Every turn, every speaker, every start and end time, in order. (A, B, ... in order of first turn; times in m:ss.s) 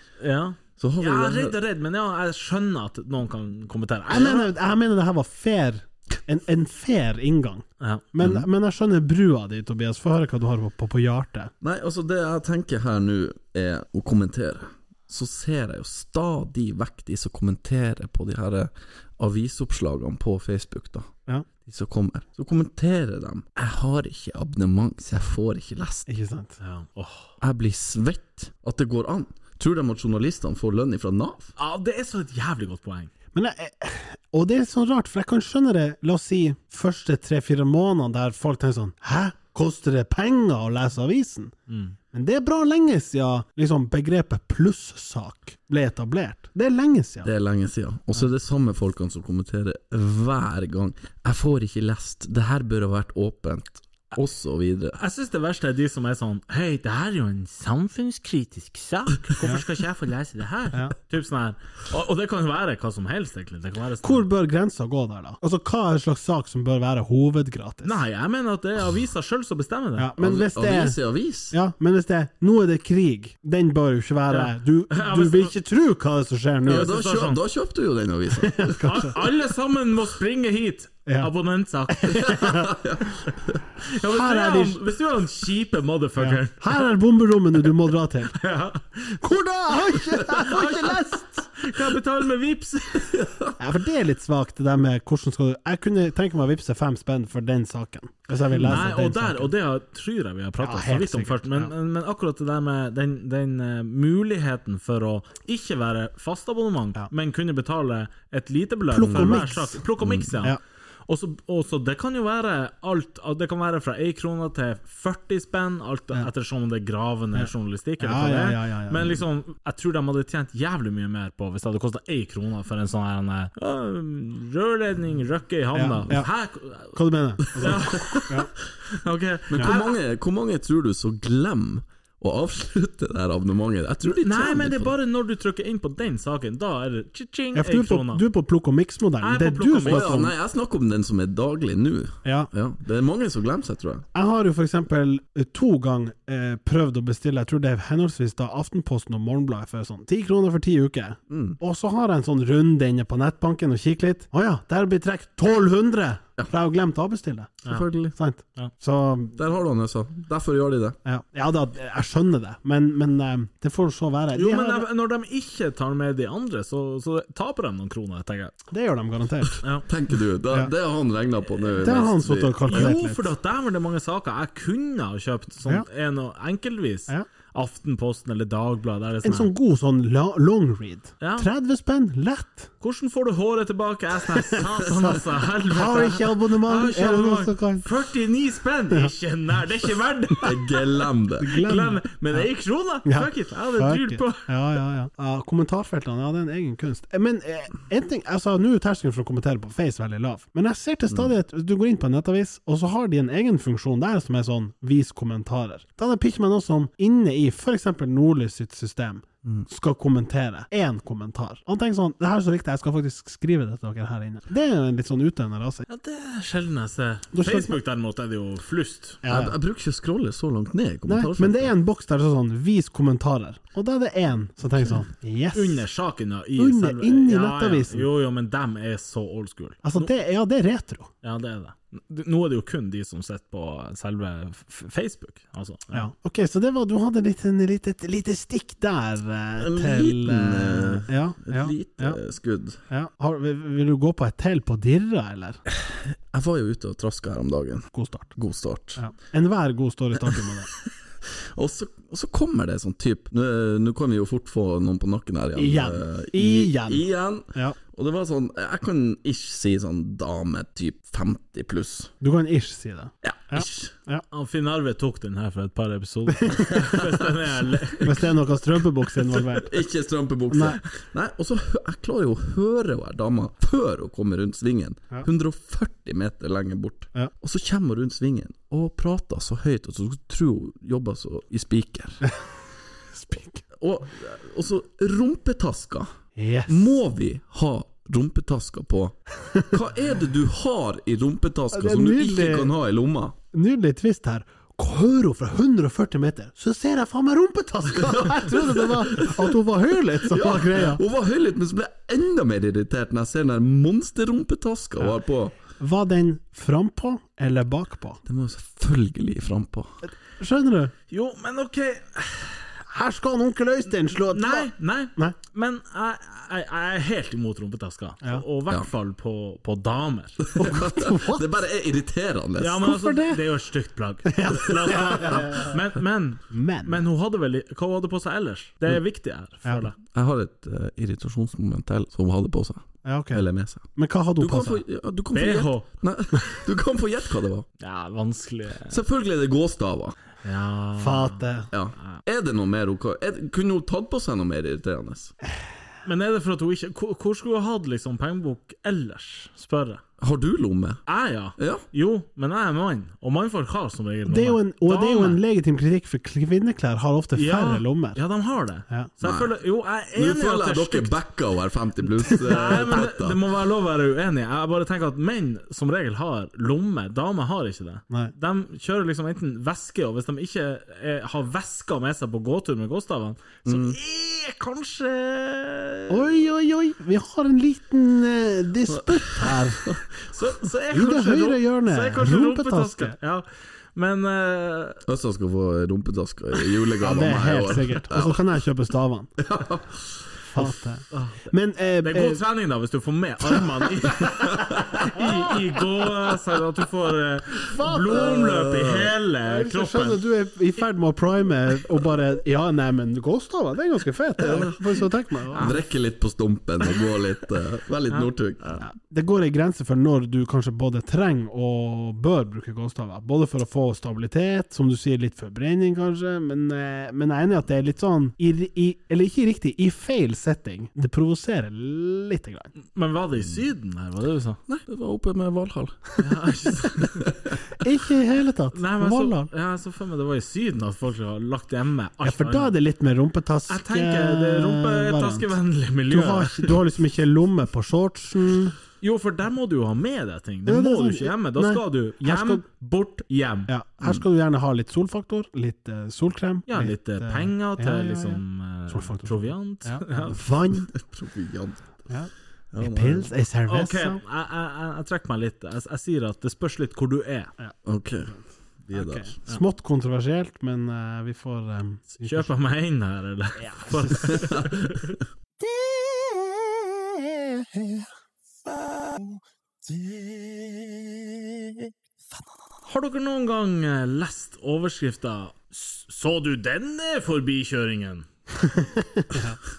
0:00.2-0:04.5 A
0:00.8-0:01.6 B
0:04.1-0:11.5 C
0:08.2-0:08.5 B
0:11.6-0:21.1 B
0:21.6-0:26.1 B
0:26.1-0:26.6 C
0:26.6-0:27.3 A
0:27.4-0:31.5 B
0:31.6-0:33.1 A
0:33.4-0:41.5 C
0:41.7-0:42.0 A
0:42.1-0:47.3 C
0:47.2-0:55.0 B
0:55.0-1:04.3 A
1:04.0-1:08.0 C
1:07.8-1:10.1 A
1:10.0-1:11.0 C
1:10.2-1:11.6 B
1:11.5-1:16.9 C
1:14.3-1:15.5 A
1:16.7-1:17.4 A
1:16.7-1:18.8 B
1:18.4-1:19.1 C
1:18.8-1:22.6 A
1:21.9-1:22.7 C
1:22.3-1:23.6 B
1:23.8-1:26.8 A
1:24.0-1:24.8 C
1:26.2-1:28.4 C
1:28.4-1:29.2 A
1:29.2-1:31.6 C
1:30.3-1:33.2 A
1:33.1-1:33.5 B
1:33.6-1:39.5 C
1:38.5-2:10.0 A
1:40.6-1:41.7 C
1:48.9-1:49.8 C
1:49.1-1:49.4 B
1:50.0-1:50.3 B
1:57.4-1:59.2 C
2:05.7-2:06.3 C
2:06.9-2:08.5 C
2:07.7-2:08.3 B
2:09.5-2:14.9 B
2:14.0-2:18.2 A
2:17.5-2:20.3 C
2:19.2-2:20.2 A
2:19.9-2:24.1 B
2:22.2-2:22.5 C
2:24.1-2:39.4 C
2:31.3-2:31.6 B
2:37.7-2:38.2 B
2:39.4-2:41.0 B
2:41.0-2:44.9 C
2:44.3-2:48.5 A
2:48.7-2:49.6 C
2:49.9-2:52.9 B
2:51.8-2:53.3 C
2:52.7-2:59.5 A
2:59.2-3:02.7 C
3:01.2-3:01.5 A
3:02.8-3:10.6 A
3:04.5-3:07.8 C
3:10.4-3:11.5 B
3:11.4-3:12.5 C
3:11.5-3:14.5 A
3:13.0-3:35.9 C
3:35.9-3:39.2 A
3:37.3-3:37.8 C
3:39.2-3:39.6 C
3:39.3-3:41.7 B
3:41.1-3:45.8 C
3:45.5-3:50.1 A
3:46.6-3:48.1 C
3:49.8-3:51.1 C
3:51.2-3:56.1 A
3:55.9-4:02.2 C
3:59.6-4:02.8 B
4:02.9-4:05.6 C
4:05.8-4:09.0 B
4:07.9-4:08.3 C
4:09.0-4:10.7 C
4:10.3-4:10.9 B
4:11.6-4:22.1 B
4:15.6-4:17.8 C
4:22.2-4:24.2 C
4:23.2-4:23.9 B
4:24.3-4:28.3 A
4:26.4-4:26.7 C
4:26.8-4:27.2 B
4:28.0-4:29.8 C
4:29.5-4:42.2 B
4:30.5-4:30.8 C
4:43.1-4:43.6 C
4:43.8-4:46.1 B
4:46.4-4:46.9 C
4:46.7-4:49.2 B
4:49.7-4:53.4 B
4:51.7-4:52.7 C
4:53.5-5:01.0 C
4:58.0-4:59.6 B
5:00.2-5:05.6 B
5:05.8-5:08.2 C
5:08.3-5:10.0 B
5:10.4-5:10.9 C
5:11.1-5:12.7 A
5:12.9-5:15.4 C
5:14.3-5:20.4 A
5:20.4-5:22.9 B
5:20.6-5:21.5 C
5:22.6-5:30.0 A
5:22.8-5:23.4 C
5:24.3-5:25.7 C
5:26.5-5:27.0 C
5:30.0-5:33.9 B
5:33.0-5:34.8 C
5:34.4-5:37.7 B
5:35.3-5:35.9 A
5:37.8-5:39.0 A
5:38.9-5:40.2 B
5:40.4-5:41.4 A
5:41.0-5:41.7 C
5:41.7-5:45.3 B
5:46.0-5:50.0 A
5:50.2-5:51.0 B
5:51.1-5:55.4 A
5:51.6-5:51.8 B
5:54.3-5:58.2 C
5:57.4-6:01.1 A
5:59.2-5:59.5 B
6:00.2-6:03.4 B
6:02.3-6:16.4 A
6:13.6-6:14.0 B
6:16.1-6:20.0 C
6:18.9-6:20.0 B
6:20.2-6:25.0 A
6:20.9-6:23.2 C
6:25.1-6:28.4 B
6:27.0-6:29.3 C
6:29.4-6:30.2 B
6:30.5-6:32.4 C
6:31.1-6:40.2 A
6:37.7-6:38.4 C
6:38.1-6:39.1 B
6:39.5-6:45.8 C
6:44.4-6:45.0 B
6:45.5-6:45.8 A
6:45.5-6:48.7 B
6:48.1-6:48.8 A
6:48.8-7:02.7 C
7:02.9-7:04.6 A
7:04.7-7:06.2 B
7:06.2-7:07.3 A
7:07.3-7:07.5 B
7:07.8-7:09.5 C
7:08.7-7:12.8 A
7:12.2-7:15.5 C
7:13.7-7:16.8 A
7:16.1-7:18.8 C
7:19.0-7:23.7 A
7:20.7-7:22.6 C
7:23.7-7:30.9 C
7:26.7-7:30.4 A
7:30.9-7:32.1 B
7:32.1-7:34.2 C
7:32.7-7:33.3 B
7:33.7-7:37.5 A
7:37.8-7:39.3 B
7:38.9-7:42.5 C
7:42.1-7:45.2 A
7:43.6-7:44.5 C
7:44.3-7:44.7 B
7:52.9-7:58.3 A
7:58.7-7:59.6 C